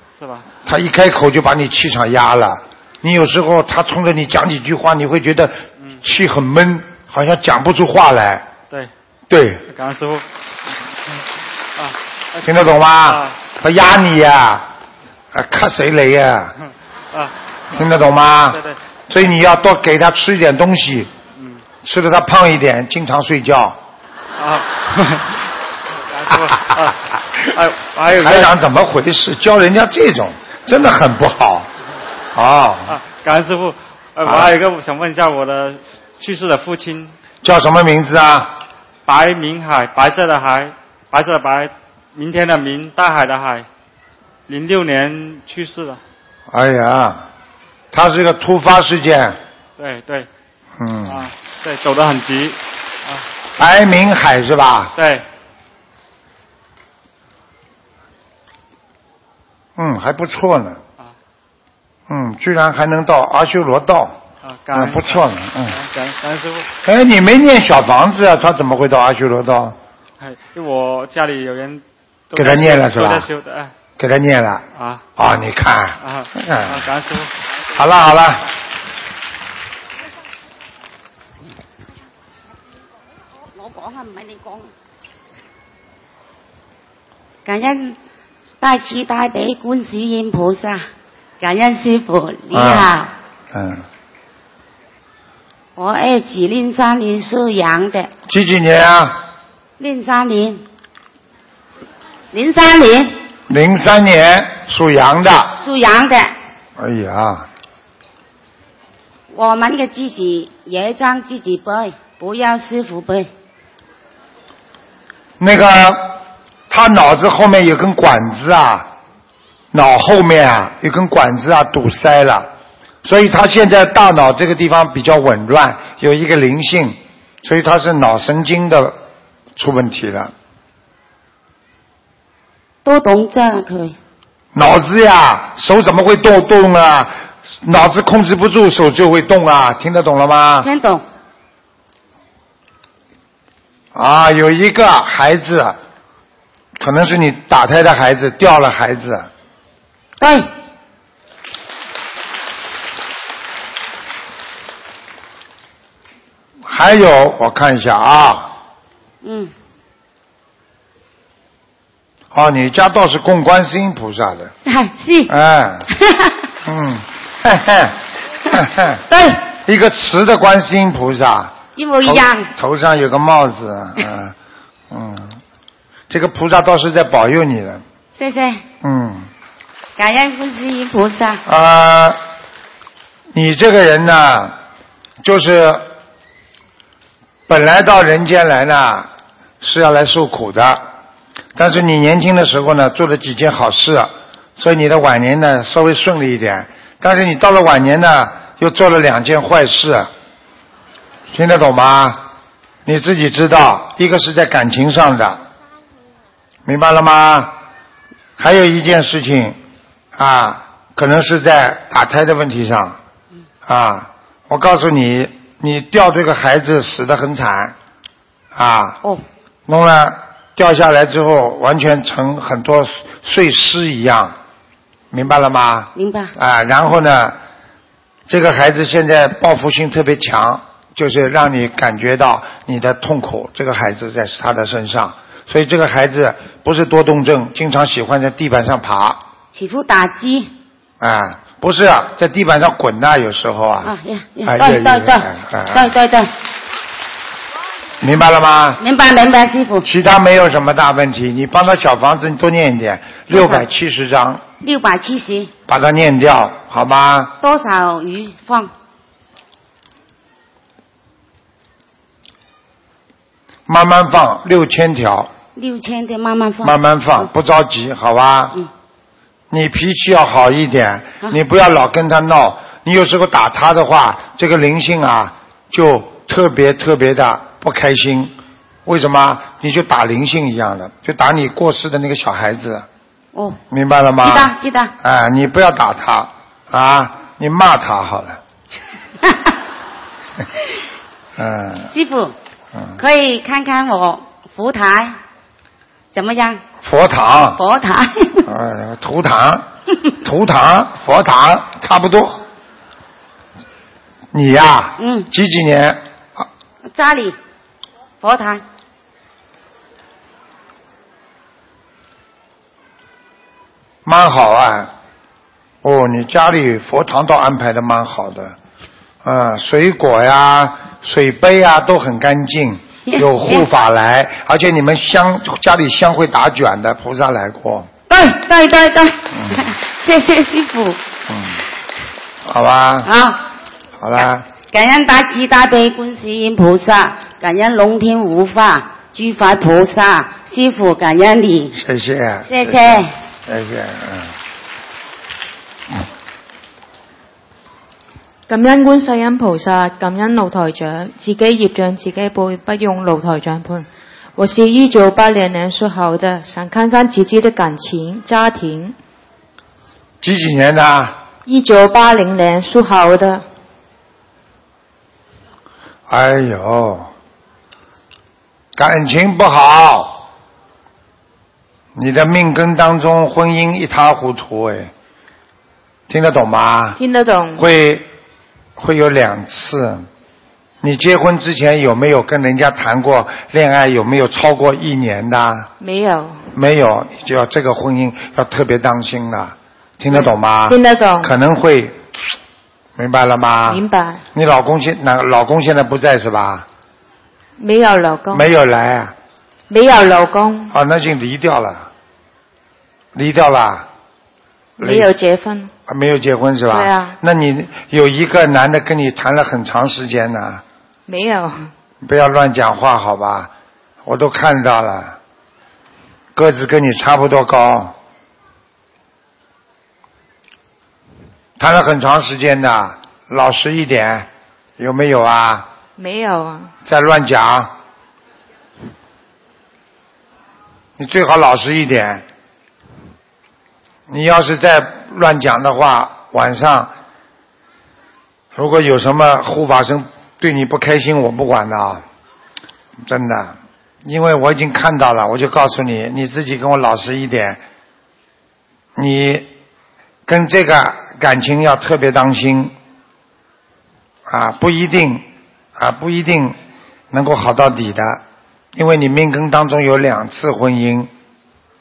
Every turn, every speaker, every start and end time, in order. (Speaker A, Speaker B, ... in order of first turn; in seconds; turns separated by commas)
Speaker A: 0.1-0.5, Speaker B: 0.6-8.5, Speaker B: 9.3-9.6, Speaker A: 9.7-10.2, Speaker A: 11.8-12.4, Speaker B: 12.4-14.7, Speaker A: 13.0-13.4, Speaker B: 15.3-16.5, Speaker A: 17.1-17.8, Speaker B: 17.7-21.1, Speaker A: 18.5-18.8, Speaker A: 21.4-21.6, Speaker B: 21.8-23.8, Speaker A: 24.4-25.5, Speaker A: 26.1-27.0, Speaker B: 26.3-27.5, Speaker A: 27.5-28.5, Speaker B: 28.1-31.7, Speaker B: 32.3-33.0, Speaker A: 32.9-37.1, Speaker B: 34.2-34.5, Speaker B: 37.4-38.5, Speaker A: 39.0-43.6, Speaker A: 44.5-46.0, Speaker B: 46.5-47.3, Speaker B: 47.9-49.4, Speaker A: 49.8-50.3, Speaker B: 50.8-51.3, Speaker A: 51.0-53.2, Speaker B: 53.6-54.9, Speaker A: 55.0-55.2, Speaker B: 59.8-60.8, Speaker B: 62.1-64.2, Speaker A: 64.4-66.7, Speaker B: 64.7-65.8, Speaker B: 66.8-69.8, Speaker A: 70.2-73.7, Speaker B: 72.3-73.3, Speaker B: 74.0-74.6, Speaker A: 74.7-75.0, Speaker B: 75.2-76.8, Speaker A: 76.0-77.3, Speaker B: 77.7-78.4, Speaker C: 83.4-84.7, Speaker C: 87.4-88.0, Speaker C: 88.6-90.9, Speaker C: 91.4-93.1, Speaker B: 92.5-92.9, Speaker B: 93.5-93.8, Speaker C: 95.8-98.1, Speaker B: 98.3-99.2, Speaker C: 99.8-100.6, Speaker C: 102.3-103.2, Speaker B: 103.5-105.5, Speaker C: 105.6-106.3, Speaker B: 106.8-107.5, Speaker C: 109.3-113.3, Speaker B: 115.4-118.9, Speaker B: 119.7-122.5, Speaker B: 123.0-129.0, Speaker B: 129.6-130.3, Speaker C: 132.8-133.9, Speaker B: 134.5-140.7, Speaker C: 140.6-141.0, Speaker B: 143.9-145.8, Speaker B: 146.8-149.3, Speaker C: 150.2-150.5, Speaker B: 156.6-158.5, Speaker C: 159.2-159.5, Speaker B: 162.3-164.5, Speaker C: 164.6-165.3, Speaker B: 165.3-165.8, Speaker C: 166.0-166.3, Speaker B: 166.6-168.0, Speaker B: 168.5-169.0, Speaker C: 169.1-169.4, Speaker B: 169.6-174.3, Speaker C: 171.8-172.5, Speaker B: 174.9-175.4, Speaker B: 176.1-177.8, Speaker C: 178.2-178.6, Speaker B: 178.8-179.3, Speaker C: 180.0-181.4, Speaker B: 181.4-182.2, Speaker B: 183.3-184.5, Speaker B: 185.2-185.9, Speaker B: 187.5-189.1, Speaker B: 189.6-190.8, Speaker B: 191.6-200.1, Speaker B: 201.3-202.3, Speaker B: 202.8-205.4, Speaker B: 206.7-207.5, Speaker B: 208.4-209.6, Speaker B: 210.1-213.0, Speaker B: 213.6-217.7, Speaker B: 218.5-219.0, Speaker B: 219.7-224.3, Speaker B: 225.1-227.4, Speaker C: 225.9-226.3, Speaker B: 228.3-239.2, Speaker C: 239.5-240.5, Speaker B: 241.0-243.9, Speaker C: 243.8-246.3, Speaker B: 244.4-245.9, Speaker B: 248.0-248.8, Speaker C: 248.8-249.9, Speaker B: 249.8-254.4, Speaker C: 253.3-253.7, Speaker C: 254.6-255.5, Speaker B: 255.7-257.3, Speaker C: 257.4-258.7, Speaker B: 263.7-265.3, Speaker C: 265.6-267.3, Speaker B: 266.6-268.5, Speaker B: 269.5-278.3, Speaker B: 278.8-282.9, Speaker C: 283.3-283.6, Speaker B: 283.7-288.4, Speaker C: 284.2-284.9, Speaker C: 289.2-289.5, Speaker B: 291.4-291.9, Speaker C: 291.9-292.3, Speaker C: 293.0-295.2, Speaker C: 296.1-296.6, Speaker B: 296.8-297.6, Speaker C: 297.6-298.4, Speaker B: 298.4-299.6, Speaker B: 300.2-302.4, Speaker B: 304.3-306.5, Speaker C: 305.0-305.3, Speaker C: 306.9-307.4, Speaker C: 308.2-308.6, Speaker B: 314.0-314.9, Speaker B: 315.8-318.6, Speaker B: 319.2-327.9, Speaker C: 323.1-323.6, Speaker C: 328.1-331.0, Speaker B: 329.3-329.7, Speaker B: 331.3-331.6, Speaker B: 332.4-333.1, Speaker C: 333.0-333.4, Speaker B: 334.0-334.4, Speaker C: 334.6-341.8, Speaker B: 341.7-344.3, Speaker C: 342.4-343.1, Speaker D: 348.5-358.9, Speaker B: 360.2-361.1, Speaker D: 361.4-363.4, Speaker B: 366.1-367.1, Speaker B: 368.8-370.3, Speaker B: 371.9-374.9, Speaker B: 376.1-377.0, Speaker D: 377.0-377.6, Speaker B: 377.6-378.1, Speaker B: 378.8-380.1, Speaker B: 380.8-385.7, Speaker D: 385.8-386.4, Speaker B: 386.5-392.0, Speaker D: 390.1-391.3, Speaker B: 392.9-393.8, Speaker D: 393.7-394.2, Speaker B: 394.3-396.6, Speaker D: 397.6-398.5, Speaker B: 398.3-399.1, Speaker D: 399.7-400.7, Speaker B: 400.7-401.9, Speaker B: 403.1-403.9, Speaker B: 404.8-405.1, Speaker D: 404.8-405.7, Speaker B: 405.9-410.6, Speaker D: 406.7-407.1, Speaker D: 411.1-411.7, Speaker B: 412.0-413.5, Speaker B: 414.0-415.2, Speaker B: 416.3-417.9, Speaker B: 421.6-425.7, Speaker D: 426.0-426.7, Speaker B: 426.8-427.7, Speaker B: 431.0-432.2, Speaker B: 434.1-436.9, Speaker B: 438.5-442.0, Speaker B: 443.0-447.6, Speaker B: 448.9-449.5, Speaker B: 450.2-452.7, Speaker B: 454.3-455.2, Speaker B: 455.8-456.6, Speaker B: 457.1-458.2, Speaker B: 458.7-461.1